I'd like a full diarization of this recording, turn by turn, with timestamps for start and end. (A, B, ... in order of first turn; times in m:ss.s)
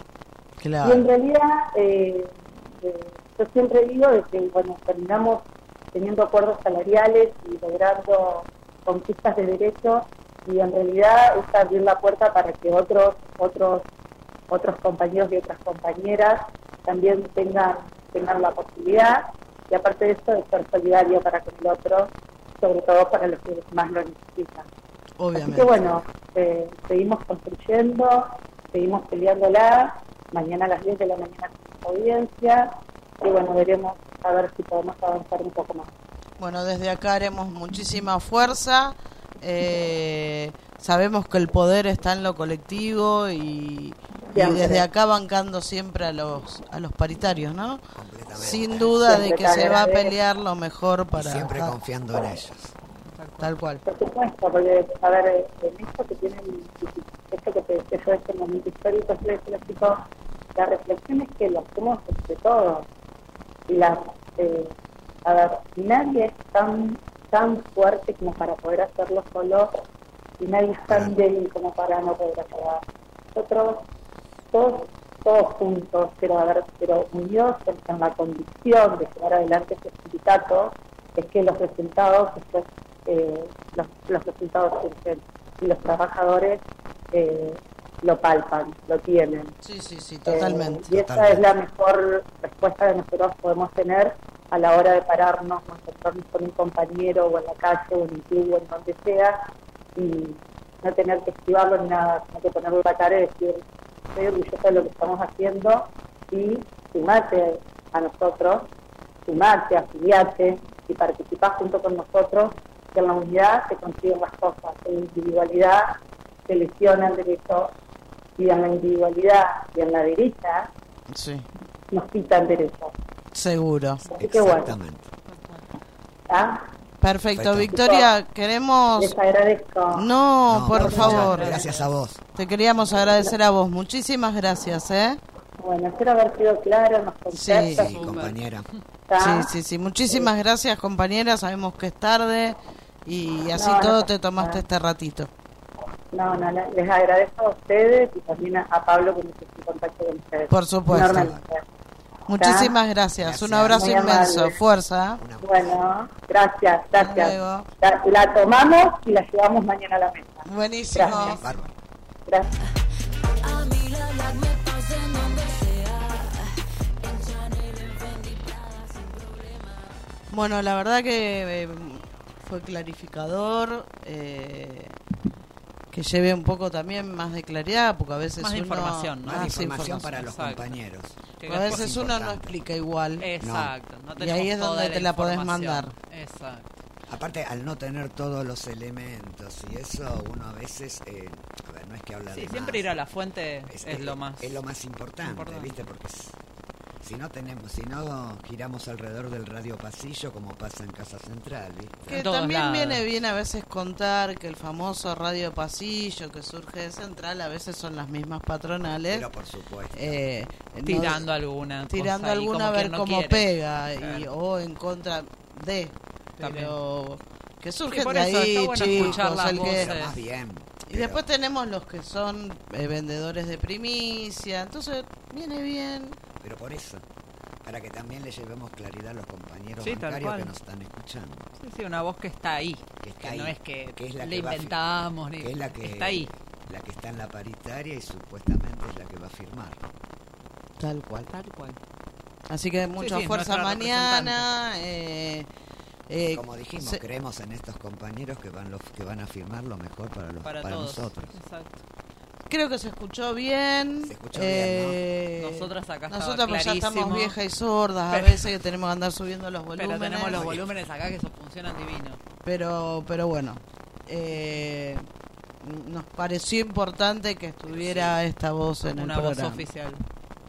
0:00.6-0:01.1 A
0:00.8-0:13.9 B
0:14.5-0:24.7 B
0:25.2-0:25.8 A
0:25.4-0:35.9 B
0:36.4-0:47.8 A
0:44.3-0:44.9 B
0:48.0-0:48.9 C
0:48.3-0:51.8 A
0:49.0-0:50.1 B
0:51.1-0:52.7 C
0:53.1-0:53.5 D
0:53.4-0:53.8 A
0:53.8-1:02.9 B
1:03.7-1:04.7 B
1:05.2-1:09.7 B
1:10.4-1:12.8 B
1:10.9-1:11.1 C
1:13.4-1:13.9 B
1:14.5-1:26.6 B
1:27.1-1:29.5 B
1:29.6-1:30.9 A
1:30.3-1:39.4 B
1:30.9-1:31.5 C
1:40.0-1:43.6 B
1:44.2-1:48.7 B
1:49.3-1:57.7 B
1:58.4-2:00.7 B
2:01.1-2:01.5 A
2:01.9-2:02.9 B
2:03.3-2:04.0 A
2:04.1-2:04.8 B
2:04.2-2:05.1 C
2:06.3-2:06.7 B
2:07.0-2:09.2 A
2:07.4-2:07.7 C
2:07.7-2:08.1 B
2:09.0-2:10.1 B
2:09.9-2:11.7 A
2:10.5-2:12.2 C
2:10.8-2:11.3 B
2:10.8-2:11.9 D
2:12.4-2:15.2 A
2:15.6-2:18.2 B
2:17.3-2:18.0 A
2:17.7-2:18.7 C
2:17.9-2:18.4 D
2:19.1-2:19.5 B
2:19.2-2:25.3 A
2:23.6-2:24.6 B
2:26.1-2:31.6 B
2:30.5-2:31.4 A
2:31.0-2:31.4 C
2:32.3-2:35.2 A
2:32.4-2:32.7 B
2:33.2-2:34.3 C
2:33.7-2:34.6 B
2:35.2-2:35.8 C
2:35.4-2:41.4 B
2:37.0-2:37.7 A
2:40.4-2:41.4 A
2:41.1-2:41.7 C
2:42.3-2:42.6 B
2:43.4-2:49.8 E
2:50.3-2:55.0 A
2:55.9-3:00.1 A
2:58.4-3:00.8 D
2:59.2-3:02.5 C
3:01.4-3:02.0 D
3:01.5-3:03.3 A
3:03.2-3:06.7 D
3:03.4-3:03.7 C
3:04.2-3:05.9 A
3:07.1-3:12.9 C
3:12.3-3:14.6 D
3:13.7-3:16.4 C
3:15.2-3:15.9 D
3:17.0-3:22.2 C
3:22.1-3:29.3 A
3:22.1-3:23.0 D
3:29.1-3:30.2 C
3:29.9-3:31.3 A
3:30.8-3:34.3 D
3:31.9-3:39.9 A
3:36.4-3:36.8 D
3:37.9-3:40.2 D
3:38.9-3:41.2 C
3:40.9-3:46.2 A
3:46.4-3:47.0 C
3:47.6-3:51.5 C
3:49.8-3:50.5 D
3:51.6-3:56.3 D
3:53.0-3:54.8 C
3:55.4-3:59.8 C
4:00.8-4:01.3 A
4:01.3-4:01.8 D
4:02.5-4:05.5 A
4:03.0-4:04.5 D
4:06.1-4:07.0 A
4:06.3-4:11.4 C
4:10.4-4:11.8 D
4:12.5-4:20.5 A
4:14.0-4:15.0 C
4:15.4-4:17.4 D
4:18.1-4:18.5 D
4:19.8-4:22.2 D
4:20.3-4:20.7 C
4:22.4-4:25.1 A
4:25.6-4:29.7 A
4:27.7-4:28.2 C
4:29.0-4:30.0 D